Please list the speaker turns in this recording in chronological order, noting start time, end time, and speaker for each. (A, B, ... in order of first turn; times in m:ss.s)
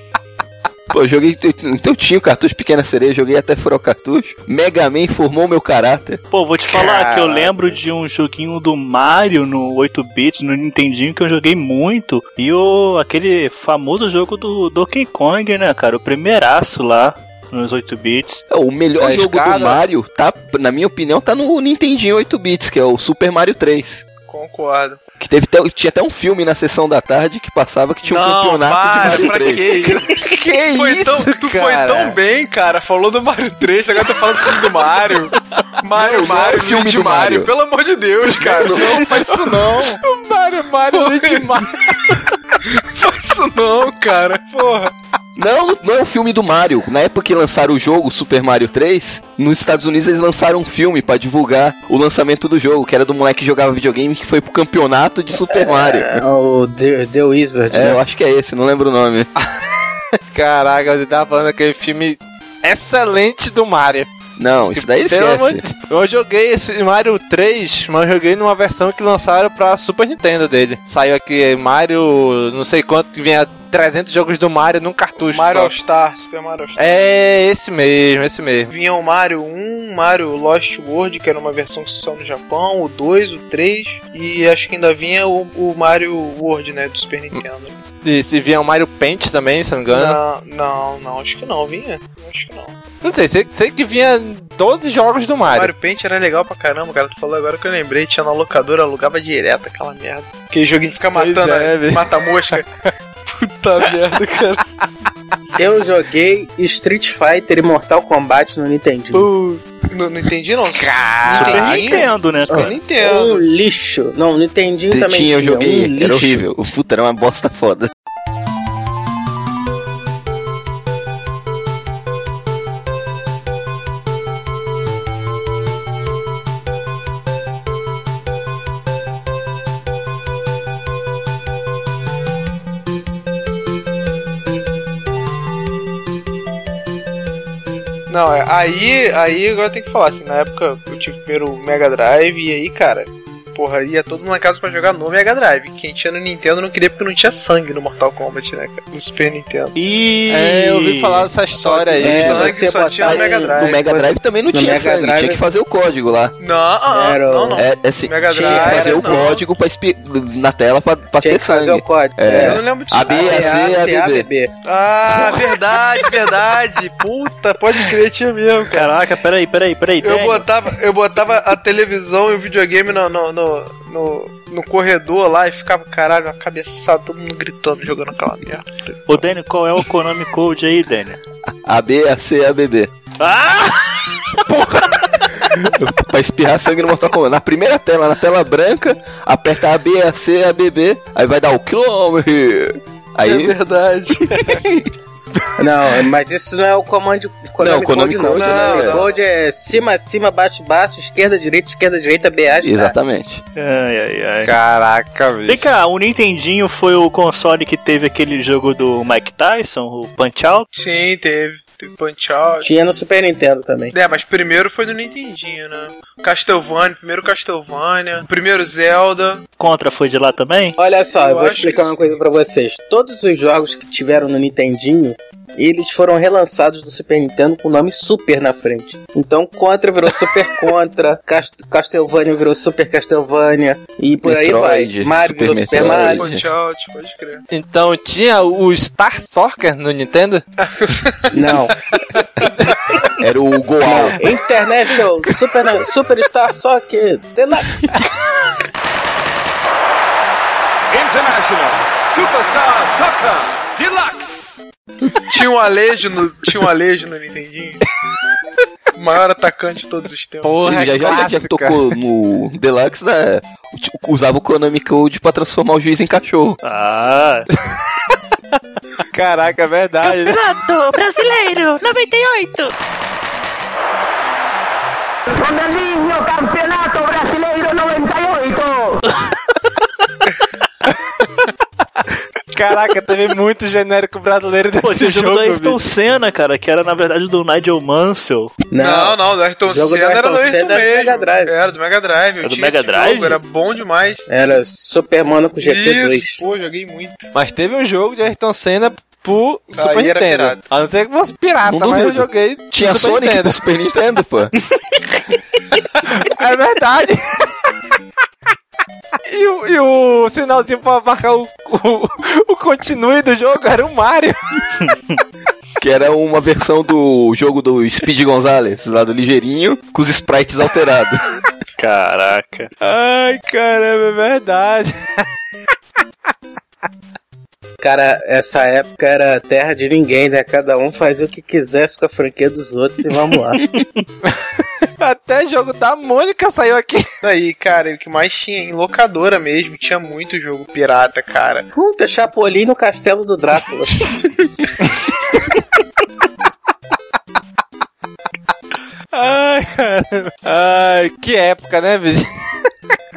0:00.9-0:06.2 A
0:06.3-0:18.4 B
0:06.7-0:07.8 C
0:18.5-0:24.0 A
0:19.0-0:19.8 C
0:24.2-0:25.0 D
0:25.2-0:29.7 A
0:28.0-0:40.0 D
0:29.8-0:32.2 C
0:35.9-0:37.5 A
0:38.4-0:39.1 A
0:38.6-0:41.8 C
0:40.9-0:41.7 D
0:42.8-0:44.9 D
0:45.4-0:56.2 A
0:55.5-0:58.0 E
0:57.7-0:59.3 A
1:00.3-1:04.1 C
1:04.4-1:05.6 A
1:04.7-1:15.7 C
1:15.2-1:16.9 D
1:16.8-1:18.7 C
1:18.7-1:27.8 D
1:28.0-1:30.2 C
1:29.9-1:32.8 D
1:33.0-1:35.7 C
1:35.5-1:42.6 D
1:41.1-1:42.6 C
1:43.2-1:44.6 D
1:45.6-1:49.3 E
1:49.1-1:53.4 D
1:50.7-1:52.0 C
1:51.3-1:52.8 B
1:52.5-1:56.4 E
1:54.9-1:57.9 A
2:18.1-2:29.8 D
2:29.8-2:31.3 B
2:30.3-2:32.6 C
2:31.5-2:33.9 D
2:32.0-2:35.4 E
2:33.0-2:36.3 A
2:36.4-2:39.4 D
2:36.9-2:37.7 E
2:37.6-2:44.3 A
2:38.2-2:39.3 E
2:41.2-2:44.5 E
2:42.3-2:43.9 D
2:44.6-2:48.9 D
2:48.7-2:50.5 B
2:50.0-2:59.2 D
2:59.1-3:01.2 B
3:01.6-3:02.9 A
3:03.2-3:04.2 B
3:05.7-3:13.6 A
3:13.2-3:14.6 D
3:14.4-3:14.8 A
3:15.6-3:22.9 E
3:17.6-3:19.0 A
3:18.2-3:19.2 D
3:22.6-3:23.4 A
3:23.6-3:24.5 B
3:24.4-3:25.7 C
3:25.5-3:30.7 B
3:30.7-3:32.7 D
3:32.6-3:33.9 E
3:33.9-3:39.4 D
3:39.6-3:40.8 B
3:40.8-3:56.4 E
3:41.1-3:42.2 D
3:54.2-3:56.5 A
3:55.7-3:57.4 D
3:57.5-4:00.4 C
4:00.6-4:01.6 D
4:01.3-4:01.7 E
4:03.2-4:04.2 A
4:03.8-4:07.9 E
4:15.2-4:17.8 D
4:19.0-4:21.0 D
4:20.4-4:22.0 C
4:20.6-4:26.6 A
4:26.6-4:27.5 B
4:29.1-4:30.4 C
4:30.0-4:32.7 F
4:35.3-4:39.0 F
4:42.5-4:45.8 C
4:44.8-4:48.5 B
4:48.7-4:51.5 E
4:48.7-4:54.2 D
4:52.4-4:53.4 B
4:54.3-4:56.4 E
4:55.6-4:57.3 D
4:57.3-5:03.6 C
4:59.7-5:00.6 D
5:01.7-5:04.5 A
5:06.1-5:07.3 C
5:09.3-5:14.4 C
5:15.8-5:21.2 A
5:21.8-5:22.7 B
5:22.8-5:25.2 C
5:27.8-5:33.6 E
5:35.0-5:37.1 C
5:37.2-5:41.7 D
5:41.7-5:44.1 E
5:49.1-5:52.3 C